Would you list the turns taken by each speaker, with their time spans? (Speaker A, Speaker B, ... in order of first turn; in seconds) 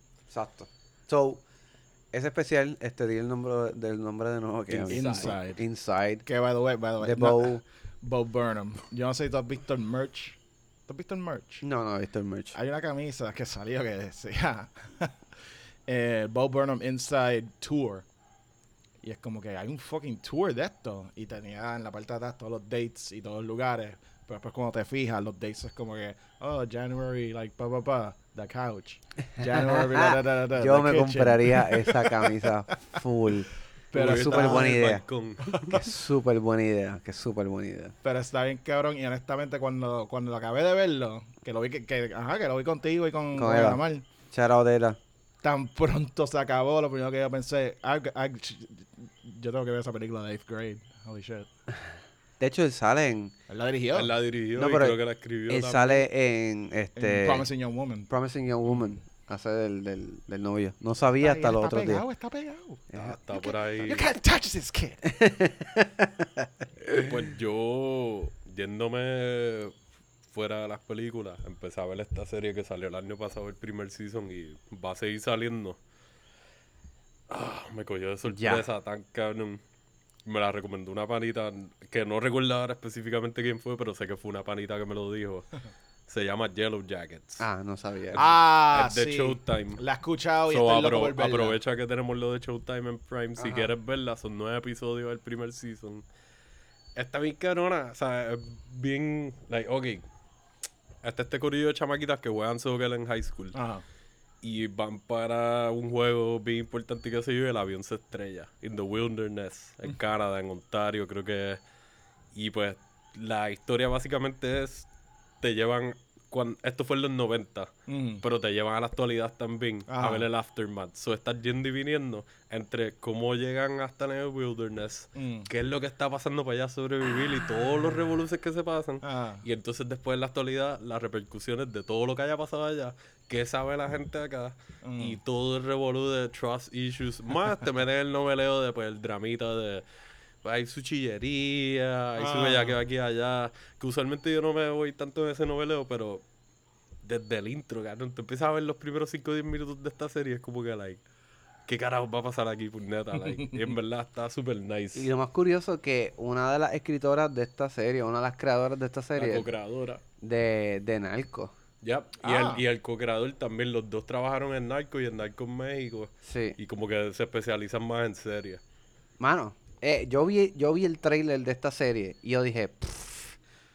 Speaker A: 0.3-1.4, 2.1-6.2, 7.0-7.6, 11.6-12.6, 29.4-35.0, 35.7-37.9, 43.3-45.0, 52.4-53.3, 54.5-57.5, 58.1-62.0, 65.1-66.1, 78.3-78.6, 87.4-88.2, 93.4-93.7, 154.9-159.5, 160.2-161.5, 166.2-166.6, 169.2-173.4
Speaker B: 4.7-5.3, 33.9-35.8, 53.9-56.1, 62.9-64.1, 66.9-69.7, 70.3-75.8, 77.3-79.6, 80.2-85.5, 86.1-87.4, 88.1-89.8, 90.5-96.0, 97.0-100.0, 101.0-103.6, 104.4-111.6, 112.3-114.9, 115.4-139.8, 140.4-146.2, 147.0-151.0, 151.7-155.1, 159.2-160.0, 161.8-168.6
Speaker C: 4.9-5.6, 6.2-11.6, 12.5-15.2, 15.9-18.0, 19.0-33.0, 33.9-34.8, 35.5-35.9, 38.0-44.0, 45.4-51.5, 53.5-54.1, 57.0-58.1, 61.2-65.0, 88.2-91.6, 103.5-103.8, 117.9-118.2, 119.9-120.3, 125.2-125.5, 129.0-129.4, 134.8-135.2, 142.2-142.8, 153.2-153.7, 162.2-162.6